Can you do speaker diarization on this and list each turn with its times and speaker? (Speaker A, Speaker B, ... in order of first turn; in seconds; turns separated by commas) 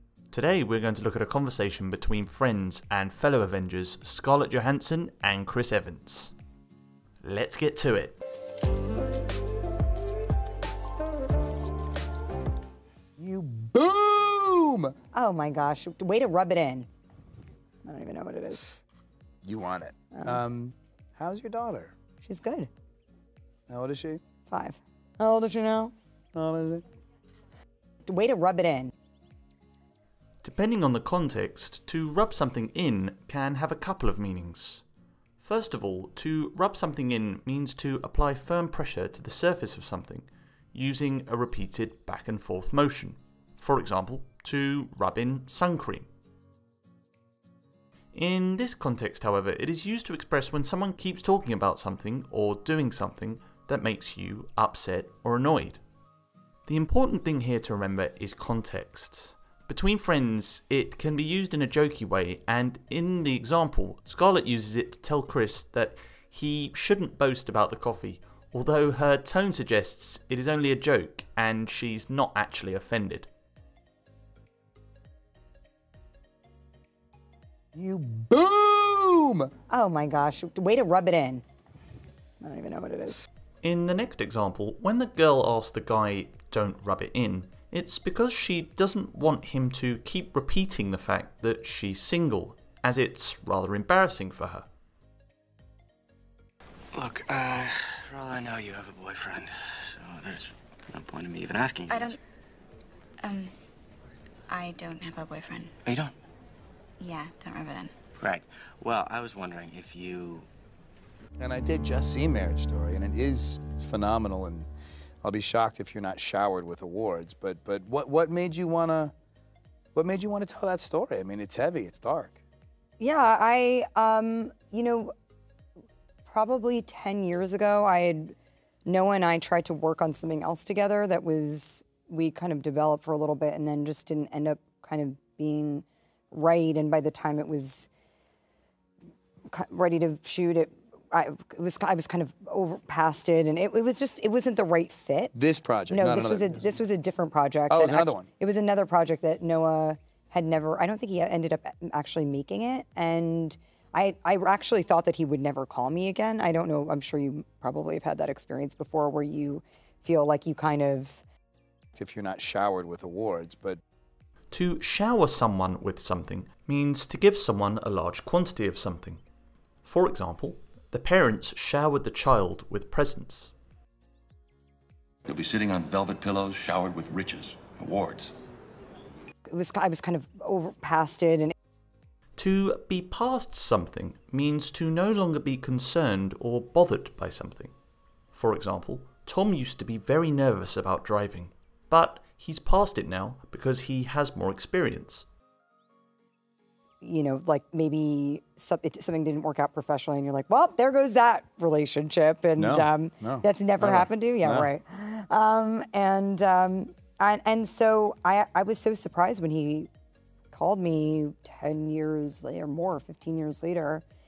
Speaker A: 0.3-6.3, Speaker A: 7.2-8.2, Speaker B: 13.2-14.9, Speaker C: 15.1-16.9, Speaker C: 17.8-18.8, Speaker B: 19.4-21.9, Speaker C: 22.2-22.7, Speaker B: 23.7-24.2, Speaker C: 24.5-25.9, Speaker B: 26.4-26.8, Speaker C: 28.1-28.9, Speaker A: 30.4-34.8, Speaker A: 35.4-46.1, Speaker A: 48.1-55.8, Speaker A: 56.7-73.3, Speaker B: 77.7-79.5, Speaker C: 79.7-81.4, Speaker C: 82.4-83.2, Speaker A: 83.6-94.7, Speaker D: 96.9-102.2, Speaker E: 101.9-102.2, Speaker E: 103.2-103.5, Speaker E: 104.5-105.7, Speaker D: 105.9-106.2, Speaker E: 107.0-107.9, Speaker D: 108.2-110.5, Speaker B: 111.4-114.7, Speaker B: 115.2-119.1, Speaker B: 120.0-122.4, Speaker C: 123.0-125.1, Speaker C: 126.3-128.3, Speaker C: 128.9-137.9, Speaker C: 139.5-145.3, Speaker B: 145.3-146.8, Speaker C: 145.9-161.2, Speaker B: 147.7-148.3, Speaker B: 162.0-163.8, Speaker A: 164.5-169.2, Speaker A: 169.8-173.5, Speaker F: 175.3-178.3, Speaker C: 179.5-181.5, Speaker A: 182.4-187.7, Speaker A: 188.3-195.3, Speaker C: 197.0-209.9, Speaker B: 202.6-204.7, Speaker C: 210.5-214.0